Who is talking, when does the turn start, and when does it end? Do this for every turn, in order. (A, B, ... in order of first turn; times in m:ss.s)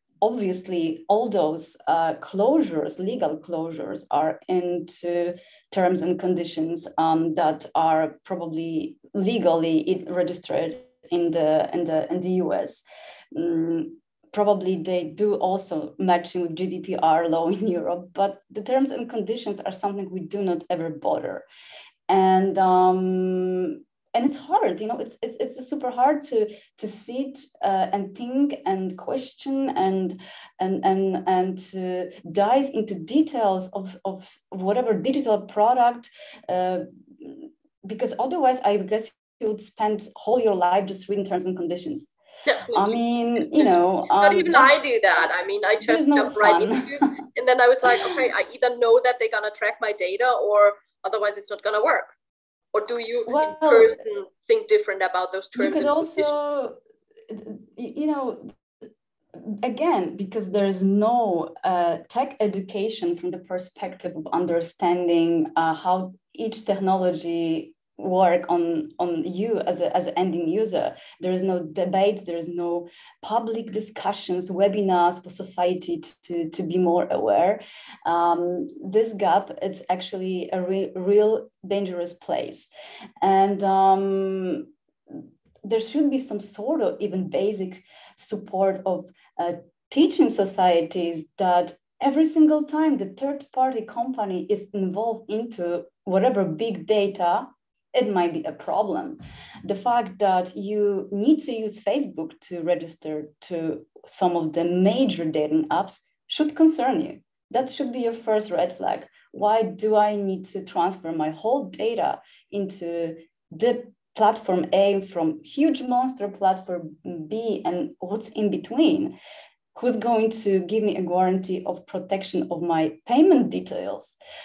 0:00.2-0:21.4 A
0:22.1-0:42.1 A
0:42.4-0:43.0 B
0:42.7-0:44.8 A
0:43.5-0:52.1 B
0:45.8-0:47.1 A
0:52.7-0:56.3 B
0:53.3-0:53.9 A
0:55.6-0:56.8 A
0:57.3-0:58.5 A
0:59.3-1:22.7 A
1:23.2-1:59.2 A
1:59.7-2:04.2 A